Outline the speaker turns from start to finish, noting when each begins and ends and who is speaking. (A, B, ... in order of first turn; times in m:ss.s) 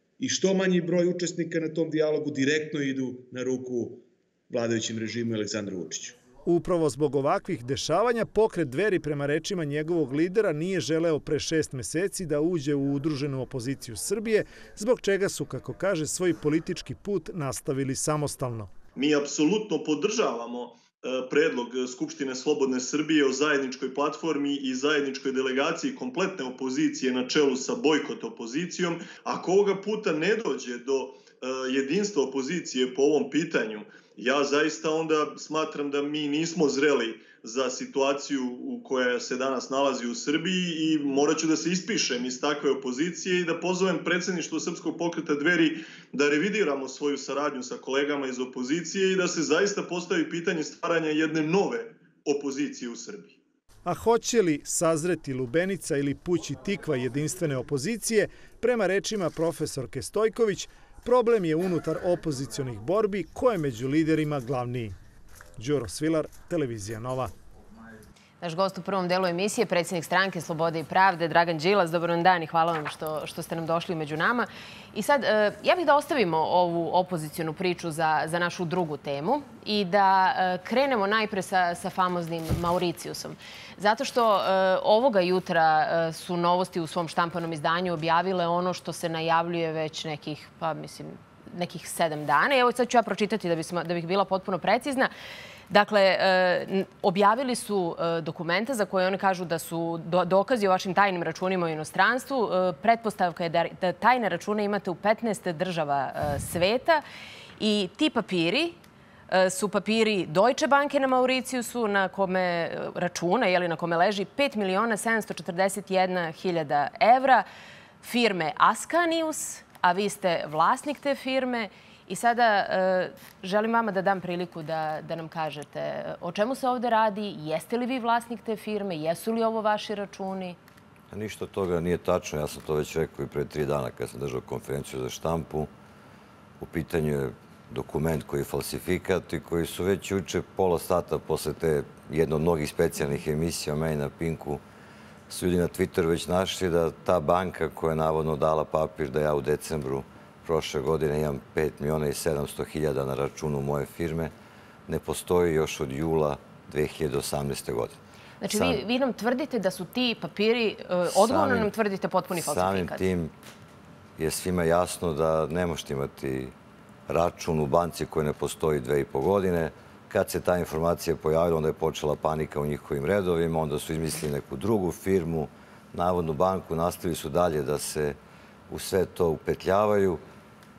0:00.2-0:06.2 A
0:06.4-0:18.7 B
0:19.0-0:53.3 C
0:53.8-1:04.9 B
1:05.6-1:07.3 B
1:08.4-1:35.1 D
1:35.7-1:47.0 D
1:47.6-1:48.8 D
1:49.3-1:57.4 D
1:58.0-2:10.6 D
2:11.1-2:15.7 E
2:16.6-2:24.6 E
2:25.3-2:34.3 E
2:34.9-2:38.8 E
2:38.4-2:43.0 D
2:41.1-2:41.7 E
2:42.3-2:43.3 E
2:44.2-2:46.5 E
2:47.1-2:58.2 E
2:58.7-3:00.2 E